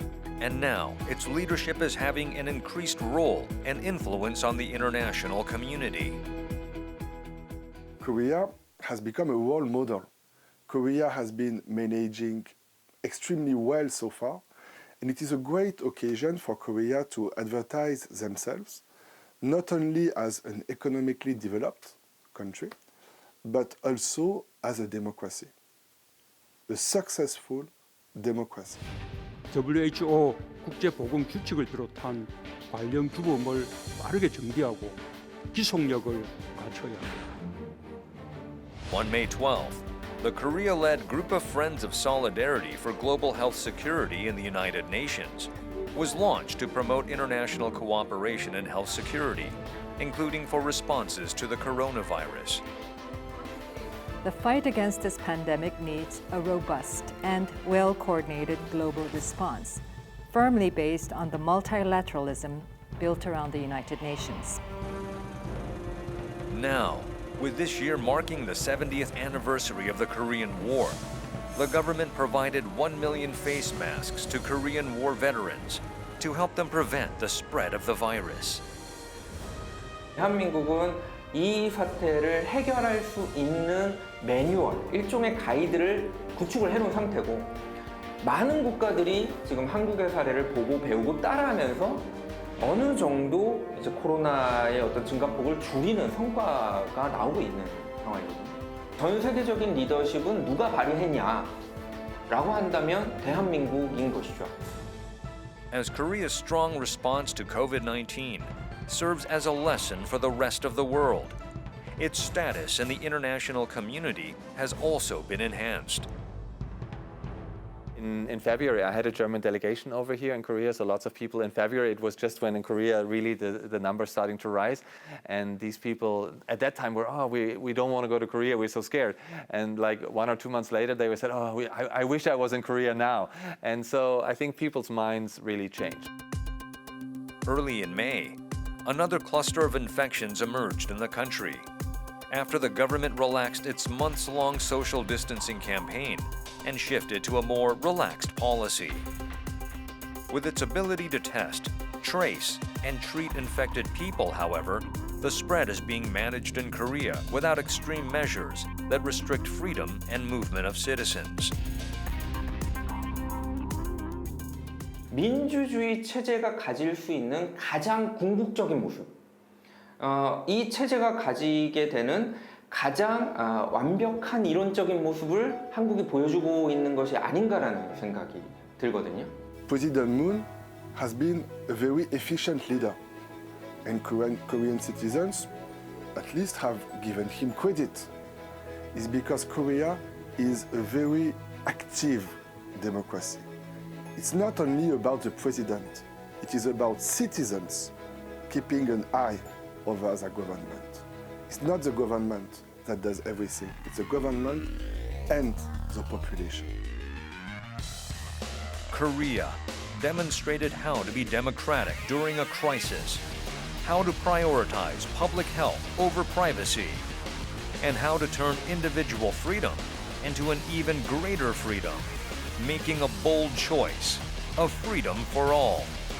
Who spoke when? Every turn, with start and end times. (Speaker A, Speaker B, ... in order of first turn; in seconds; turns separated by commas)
Speaker A: 0.4-6.2, Speaker B: 8.0-10.1, Speaker B: 10.7-14.4, Speaker B: 15.0-18.8, Speaker B: 19.4-22.7, Speaker B: 23.4-25.5, Speaker B: 26.7-28.8, Speaker C: 29.5-35.0, Speaker C: 35.5-37.2, Speaker A: 38.9-52.6, Speaker D: 54.2-64.6, Speaker A: 66.5-71.0, Speaker A: 71.5-78.6, Speaker E: 80.2-87.6, Speaker E: 88.2-101.6, Speaker E: 102.3-104.5, Speaker A: 105.7-111.4, Speaker A: 112.0-116.1, Speaker F: 117.9-136.1, Speaker A: 137.5-141.7, Speaker A: 142.3-149.1, Speaker A: 150.3-161.5, Speaker E: 165.1-169.2, Speaker E: 170.0-179.3, Speaker B: 179.7-183.0, Speaker B: 183.8-185.5, Speaker B: 186.1-188.1, Speaker B: 188.9-193.5, Speaker B: 194.2-197.9, Speaker B: 198.5-204.7, Speaker B: 205.3-206.7, Speaker A: 208.9-213.2, Speaker A: 213.8-217.1, Speaker A: 217.8-225.9